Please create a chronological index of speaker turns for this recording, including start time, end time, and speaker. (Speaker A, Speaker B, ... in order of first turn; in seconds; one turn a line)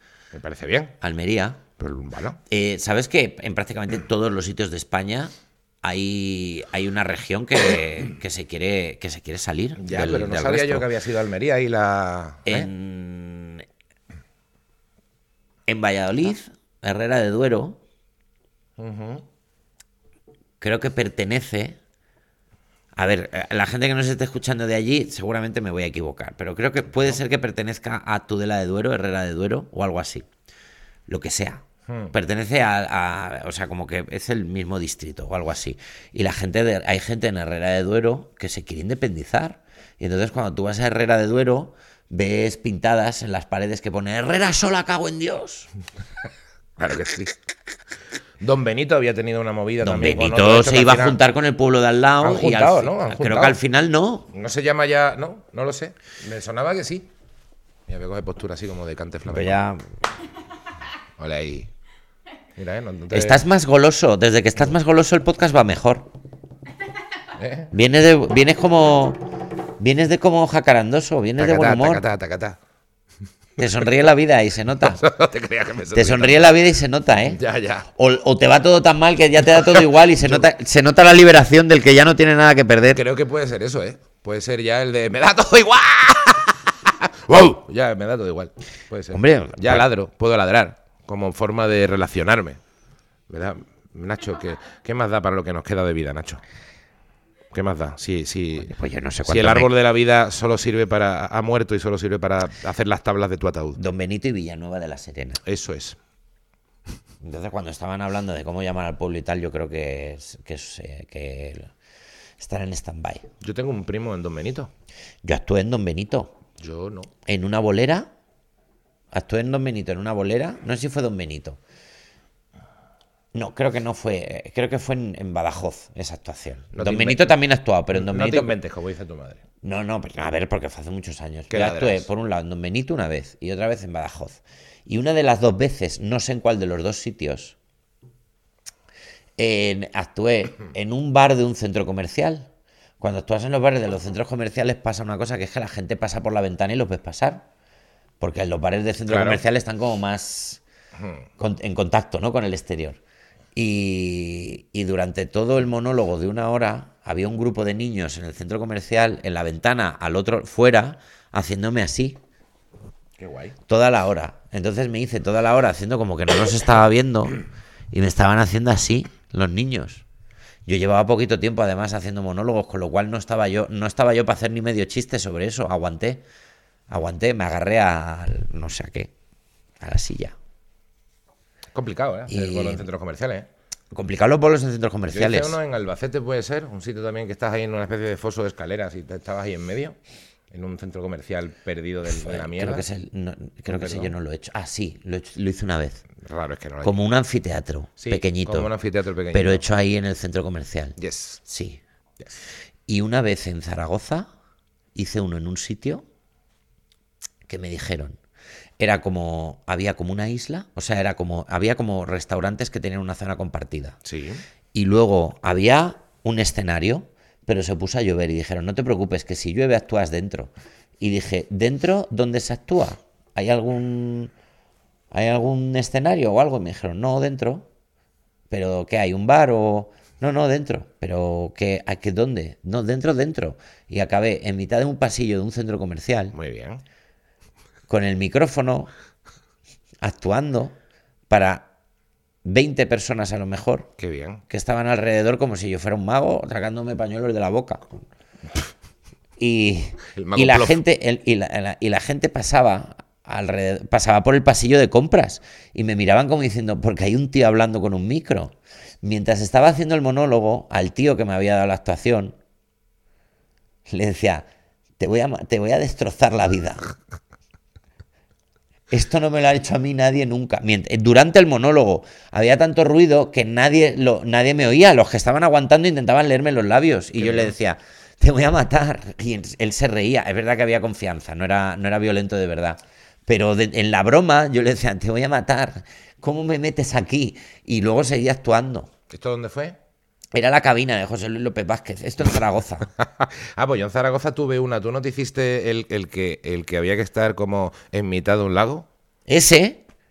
Speaker A: 0.3-1.0
Speaker B: 1.0-1.6
Speaker A: 1.8-2.4
Speaker B: 2.5-10.9
Speaker A: 9.8-12.7
Speaker B: 12.5-13.7
Speaker B: 15.7-17.8
Speaker A: 18.8-19.2
Speaker B: 20.6-21.8
Speaker B: 22.9-30.3
Speaker B: 31.1-45.7
Speaker A: 31.9-32.1
Speaker A: 46.8-47.4
Speaker A: 48.4-51.2
Speaker B: 49.8-54.3
Speaker A: 52.2-53.6
Speaker A: 54.3-57.1
Speaker A: 57.9-59.6
Speaker B: 59.3-59.8
Speaker A: 61.2-61.7
Speaker A: 62.6-63.4
Speaker B: 63.1-66.1
Speaker A: 67.4-67.7
Speaker B: 67.7-72.0
Speaker A: 71.4-72.6
Speaker B: 73.6-75.0
Speaker A: 74.8-76.6
Speaker B: 75.9-77.4
Speaker A: 77.3-77.9
Speaker B: 78.0-83.0
Speaker A: 79.6-80.5
Speaker A: 82.9-92.6
Speaker B: 89.1-89.9
Speaker A: 93.3-96.4
Speaker A: 97.5-98.7
Speaker B: 98.6-99.7
Speaker A: 99.2-103.8
Speaker B: 103.8-105.4
Speaker A: 105.5-106.0
Speaker B: 107.2-111.7
Speaker B: 112.4-113.3
Speaker A: 113.4-114.7
Speaker B: 115.2-116.4
Speaker A: 116.6-117.1
Speaker B: 117.3-118.1
Speaker B: 119.1-121.6
Speaker B: 123.3-128.6
Speaker A: 126.7-127.4
Speaker A: 127.9-129.4
Speaker B: 129.6-137.6
Speaker A: 131.5-132.1
Speaker B: 139.4-142.5
Speaker B: 143.0-147.5
Speaker B: 148.2-150.6
Speaker A: 149.1-149.4
Speaker A: 151.0-151.2
Speaker B: 151.4-153.0
Speaker B: 153.6-162.2
Speaker A: 163.2-163.6
Speaker B: 163.7-170.0
Speaker B: 170.7-176.2
Speaker B: 176.9-179.1
Speaker B: 179.8-180.3
Speaker A: 181.7-183.5
Speaker B: 182.3-182.8
Speaker B: 183.9-185.6
Speaker A: 185.1-190.0
Speaker A: 190.5-192.9
Speaker B: 192.1-196.1
Speaker A: 193.7-194.1
Speaker A: 196.2-197.0
Speaker B: 196.8-198.7
Speaker A: 198.0-199.6
Speaker B: 199.3-201.8
Speaker A: 201.0-201.4
Speaker B: 202.9-204.3
Speaker B: 204.9-206.0
Speaker B: 207.5-208.2
Speaker B: 208.8-214.0
Speaker A: 214.1-214.4
Speaker B: 214.7-224.3
Speaker B: 225.1-227.7
Speaker B: 228.5-236.3
Speaker A: 236.3-236.8
Speaker B: 237.9-238.9
Speaker B: 240.0-240.8
Speaker B: 241.3-241.7
Speaker B: 242.4-243.9
Speaker A: 244.0-244.4
Speaker B: 244.5-248.1
Speaker B: 249.4-262.4
Speaker A: 250.2-250.8
Speaker B: 263.9-264.5
Speaker B: 265.0-266.9
Speaker B: 268.9-288.9
Speaker A: 277.2-277.6
Speaker A: 289.1-289.8
Speaker B: 290.3-292.9
Speaker A: 293.0-298.9
Speaker B: 299.3-299.8